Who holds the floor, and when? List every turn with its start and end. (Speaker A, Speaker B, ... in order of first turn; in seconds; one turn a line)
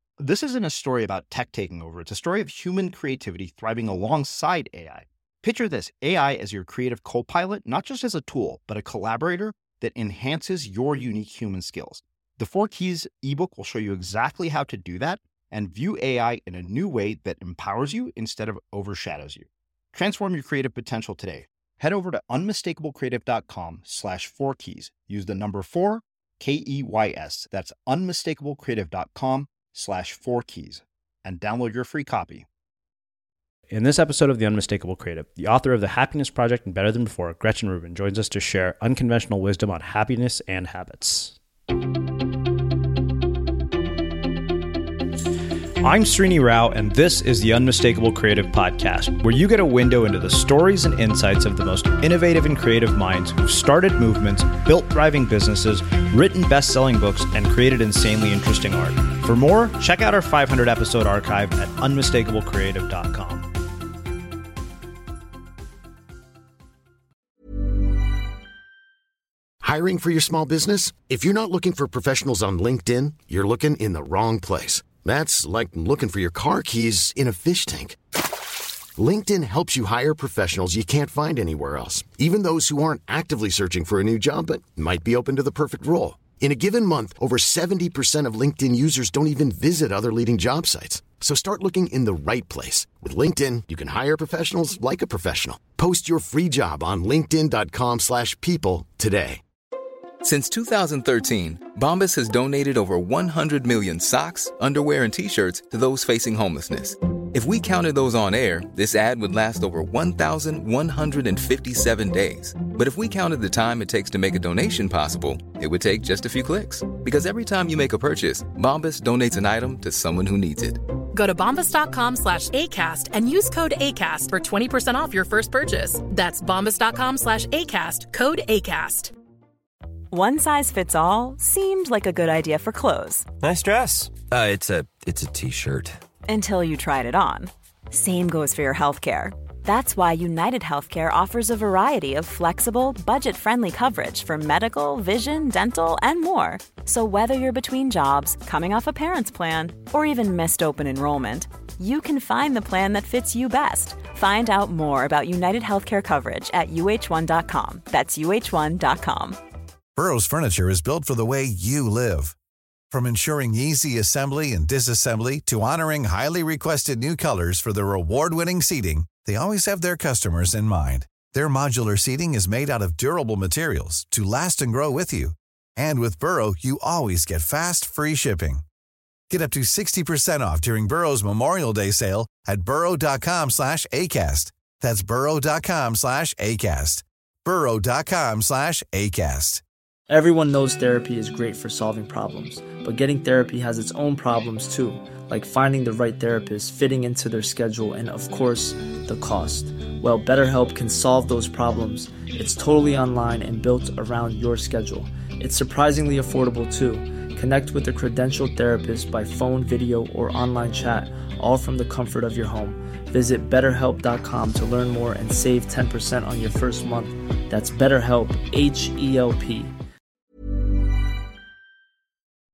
Speaker A: 0.2-32.5
Speaker B: 33.7-41.3
Speaker B: 45.8-63.5
Speaker C: 69.6-78.0
Speaker C: 79.0-99.4
Speaker D: 100.2-120.8
Speaker E: 121.1-129.1
Speaker F: 130.1-133.3
Speaker G: 133.4-136.0
Speaker F: 136.2-159.4
Speaker H: 159.9-162.3
Speaker H: 162.9-178.6
Speaker H: 179.3-189.6
Speaker I: 190.1-219.7